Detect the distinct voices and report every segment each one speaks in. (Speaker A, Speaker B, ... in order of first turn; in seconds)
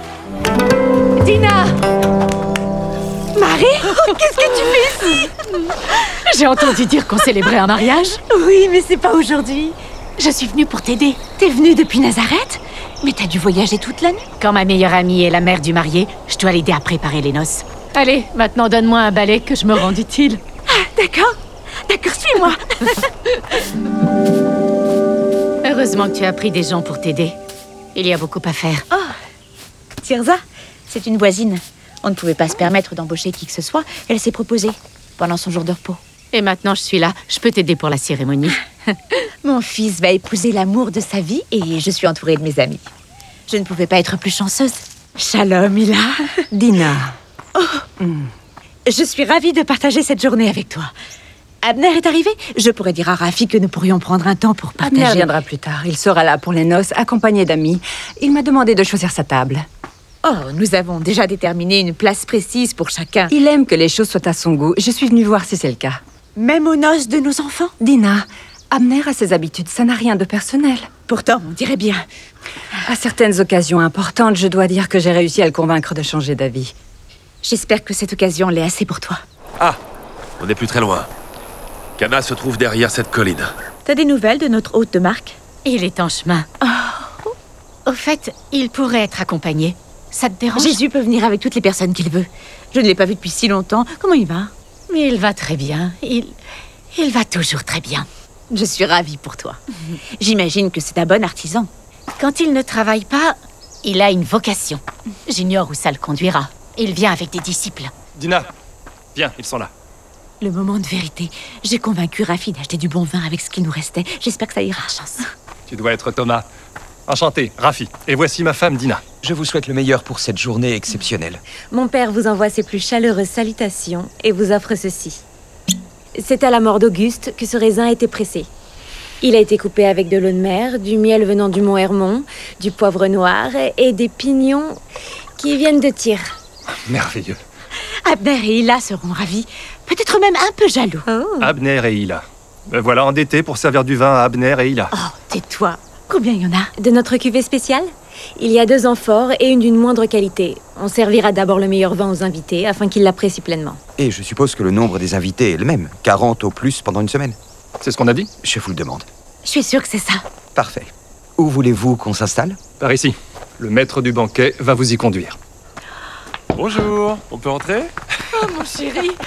Speaker A: 1.2-1.7, 6.3-8.2, 10.2-11.2, 14.4-20.4, 25.6-27.4, 27.9-28.9, 36.3-38.6, 85.7-86.5, 87.9-90.8, 94.9-96.3, 96.9-98.1, 102.2-107.9, 168.5-169.2
Speaker B: 3.4-5.3, 8.3-9.8, 11.2-14.2, 20.7-21.4, 21.9-22.8, 30.0-36.0, 39.4-42.9, 43.5-46.4, 47.6-47.9, 48.9-50.9, 51.6-55.3, 60.2-63.3, 66.4-67.7, 71.1-72.1, 77.4-79.2, 83.8-85.4, 86.6-87.1, 90.5-94.5, 98.5-99.6, 100.2-101.7, 110.4-115.3, 138.1-141.1, 144.9-146.7, 159.4-160.2
Speaker C: 46.5-47.1, 48.0-48.3, 54.8-59.6, 63.3-66.0, 67.8-70.9, 72.9-76.7
Speaker D: 80.4-81.1, 82.0-83.5, 166.5-167.9
Speaker E: 108.2-108.5, 109.2-109.7, 115.7-116.5, 117.1-119.0, 136.9-137.4, 141.4-144.9, 157.8-158.3, 162.8-165.4
Speaker F: 119.2-121.4, 154.0-157.4, 158.4-159.1, 160.6-162.6
Speaker G: 121.7-125.2, 126.2-128.5, 129.2-134.8, 135.4-136.3, 141.1-141.5, 146.8-153.8